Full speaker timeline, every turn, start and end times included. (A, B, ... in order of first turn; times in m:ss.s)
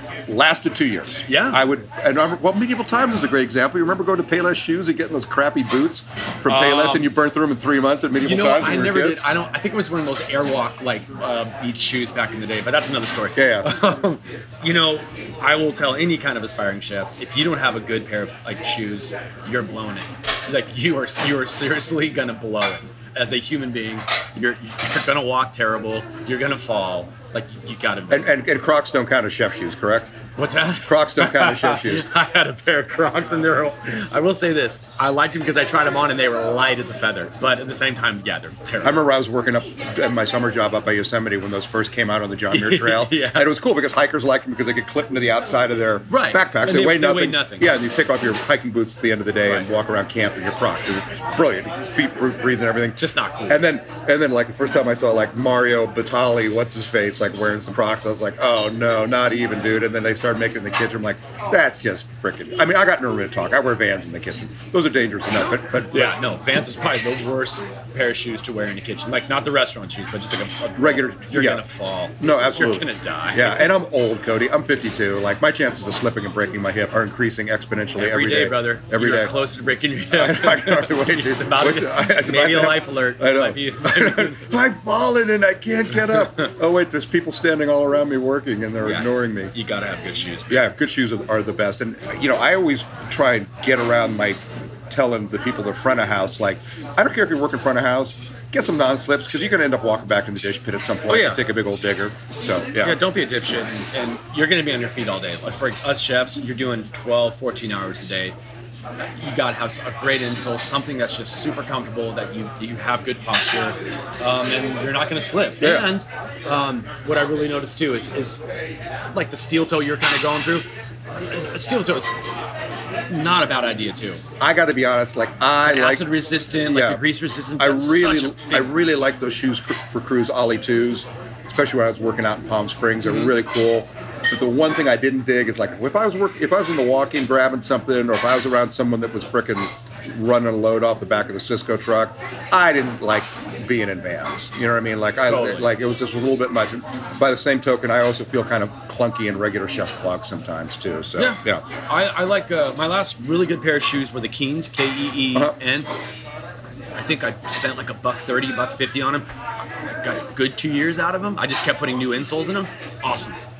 0:00.3-0:09.2 A
0:01.3-0:01.6 B
0:06.5-0:07.1 B
0:08.2-0:28.3 B
0:13.4-0:13.7 A
0:28.1-0:30.1 A
0:30.4-0:39.0 B
0:30.8-0:32.1 A
0:38.8-1:06.2 A
0:42.5-0:43.5 B
0:46.1-0:47.7 B
0:53.0-0:53.7 B
1:05.4-1:13.7 B
1:10.8-1:11.6 A
1:12.2-1:19.4 A
1:18.0-1:24.5 B
1:20.1-1:29.5 A
1:26.1-1:26.5 B
1:28.8-1:30.6 B
1:30.5-1:43.0 A
1:41.1-1:41.4 B
1:42.8-1:48.4 B
1:49.2-1:58.4 B
1:55.6-1:55.9 A
1:59.1-2:00.7 B
2:01.2-2:02.1 B
2:03.1-2:04.2 B
2:04.4-2:06.1 A
2:05.6-2:08.7 B
2:06.7-2:07.0 A
2:07.6-2:31.6 A
2:13.0-2:13.3 B
2:25.2-2:25.7 B
2:31.2-2:35.9 B
2:36.9-2:39.3 B
2:40.0-2:43.4 B